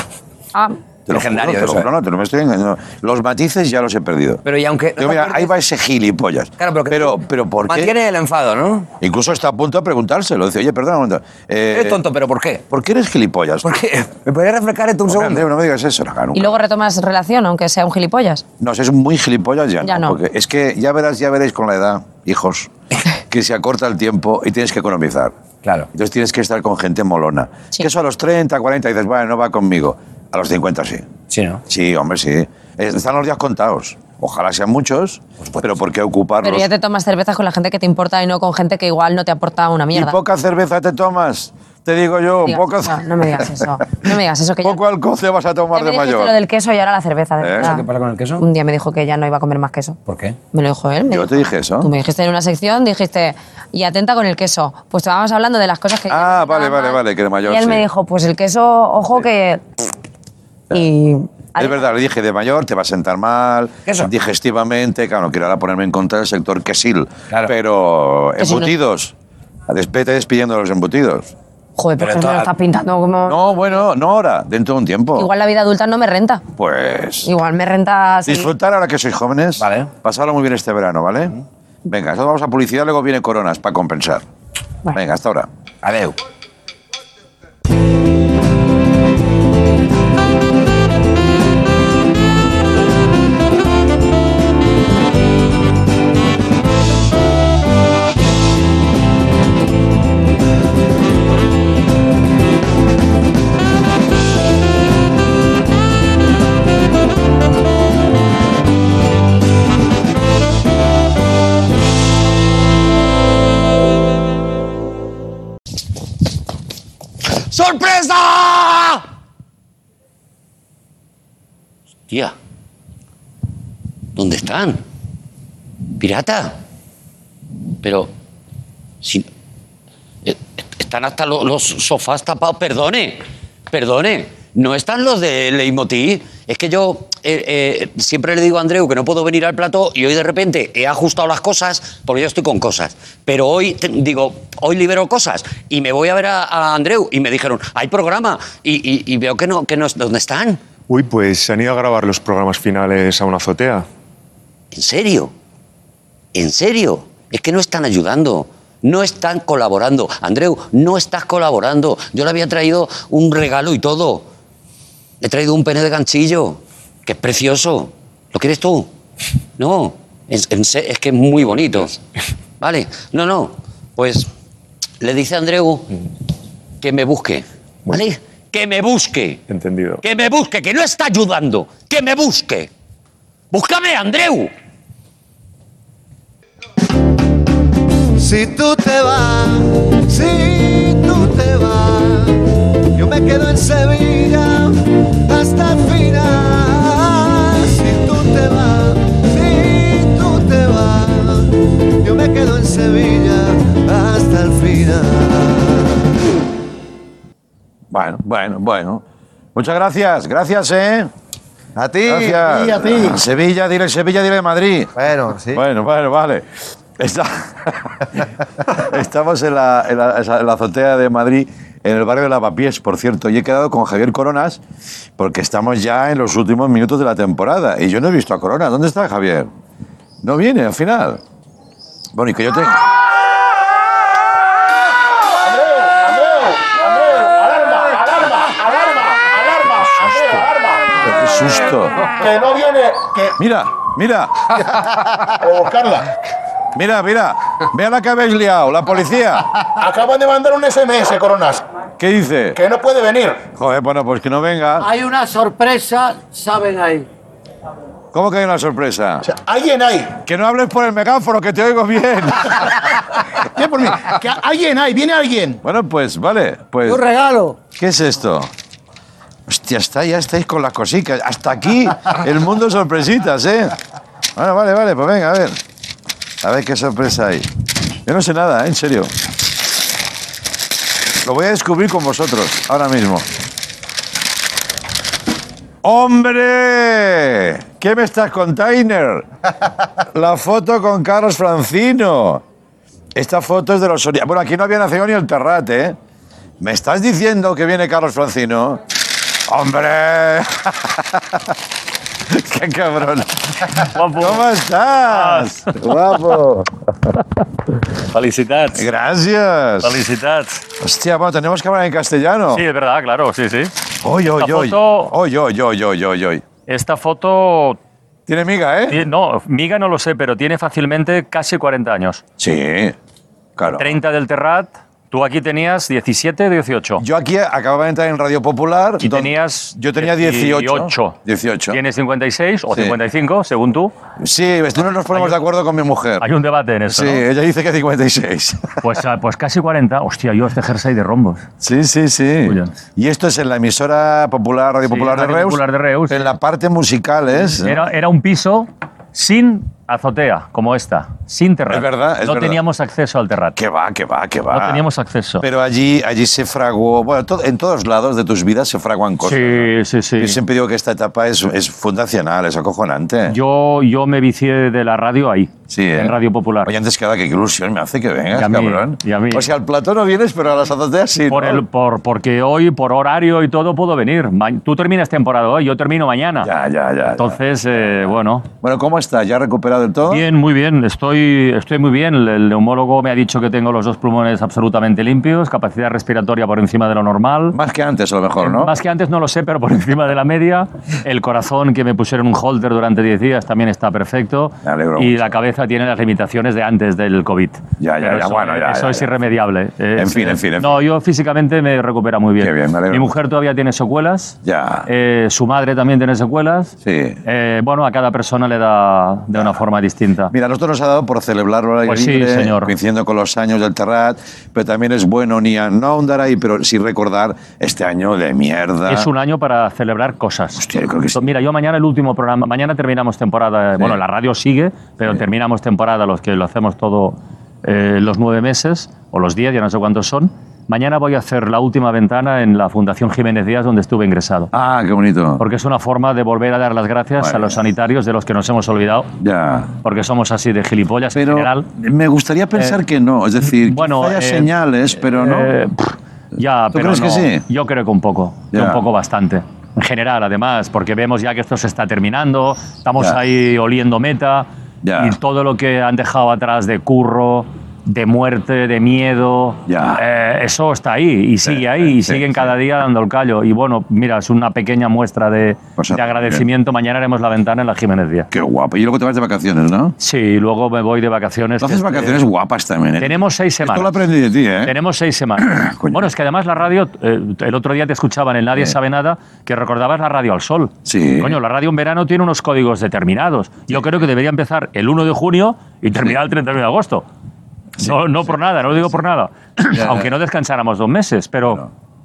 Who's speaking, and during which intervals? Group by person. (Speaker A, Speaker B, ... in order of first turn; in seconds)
Speaker A: 1.1-4.4, 5.0-7.9, 9.0-12.0, 12.7-13.7, 15.1-16.6, 18.6-22.7, 23.3-25.3, 25.9-31.1, 31.7-36.7, 39.9-43.6, 44.6-46.4, 47.4-47.7, 51.1-51.9, 56.1-57.9, 61.6-69.1, 69.7-71.3, 73.3-75.3, 76.6-77.3, 78.3-84.2, 84.9-85.5, 207.9-209.0, 209.6-211.1, 212.0-216.5, 217.0-224.6, 225.2-229.5, 230.2-231.2, 232.2-232.9, 241.0-242.1, 243.4-244.7, 246.8-249.6, 252.0-252.6, 253.6-254.9, 258.1-259.2, 260.2-262.7, 265.6-267.0, 267.7-268.5, 269.5-273.8, 274.4-275.6, 276.4-277.5, 278.1-279.1, 281.2-283.3, 285.8-289.3, 290.1-292.4, 293.1-296.0, 296.6-298.8, 299.5-301.4, 302.3-306.7, 308.8-310.0, 310.8-312.6, 314.0-316.4, 318.3-319.0, 322.4-323.0, 323.6-323.9, 327.0-331.8, 334.2-336.3, 336.9-338.8, 341.6-347.8, 351.7-352.6, 353.6-354.8, 355.4-363.4, 365.7-366.1, 366.6-371.6, 376.4-377.4, 378.6-380.2, 387.5-388.7, 394.6-395.3, 397.8-399.1, 400.0-400.8, 402.4-403.1, 404.4-404.9, 406.9-407.2, 410.3-419.1, 420.6-421.2, 434.5-435.4, 437.2-437.6, 439.2-439.7, 441.1-445.5, 446.7-447.4, 448.5-448.8, 454.8-455.2, 459.7-460.0, 461.4-462.5, 465.8-466.4, 468.3-469.9, 471.6-474.7, 475.5-476.1, 480.9-481.4, 489.7-490.1
Speaker B: 1.1-1.9, 4.4-5.5, 6.6-8.9, 11.7-12.7, 13.6-15.5, 25.6-25.9, 31.3-31.6, 35.4-35.8, 47.6-48.4, 50.1-50.4, 63.9-64.1, 72.0-72.5, 79.6-79.9, 85.8-86.2
Speaker C: 16.4-18.4, 19.8-20.2, 36.4-40.2, 42.5-44.8, 45.7-47.9, 48.4-50.0, 50.5-59.9, 60.7-61.8, 68.4-68.7, 71.8-73.4, 75.2-76.4, 77.2-78.5
Speaker D: 117.4-119.0, 122.1-122.3, 124.2-124.8, 126.0-126.6, 127.8-128.1, 129.0-129.3, 130.2-150.6, 154.7-155.3, 156.3-164.3, 165.2-168.9, 169.6-172.0, 172.6-174.3, 175.0-175.9, 176.8-179.4, 180.0-182.7, 183.5-184.5
Speaker E: 150.9-153.9, 179.5-180.0
Speaker F: 188.2-192.4, 192.9-206.0, 211.8-212.3, 215.0-215.6
Speaker G: 212.5-212.9, 235.4-241.0, 242.1-243.3, 245.3-246.1, 249.8-251.6, 252.6-253.4, 259.2-260.1, 263.5-265.6
Speaker H: 254.8-257.1, 266.9-267.6
Speaker I: 303.8-304.4, 305.0-305.9, 308.1-308.8, 309.8-310.6, 312.5-313.7, 314.4-315.1, 316.7-317.8, 318.9-322.2, 323.7-327.0, 329.0-331.2, 331.7-333.9, 336.2-337.2, 338.8-341.4, 342.4-342.7, 344.9-346.3, 347.5-353.6, 354.5-355.4, 359.2-360.4, 363.3-366.7, 368.3-369.5, 371.3-376.5, 377.2-378.5, 380.1-387.6, 388.4-406.7, 407.2-410.3, 411.9-412.7, 418.9-420.6, 421.1-434.5, 435.4-439.1, 439.8-441.7, 443.4-468.3, 470.0-472.2, 473.0-473.9, 474.6-487.1, 487.8-491.6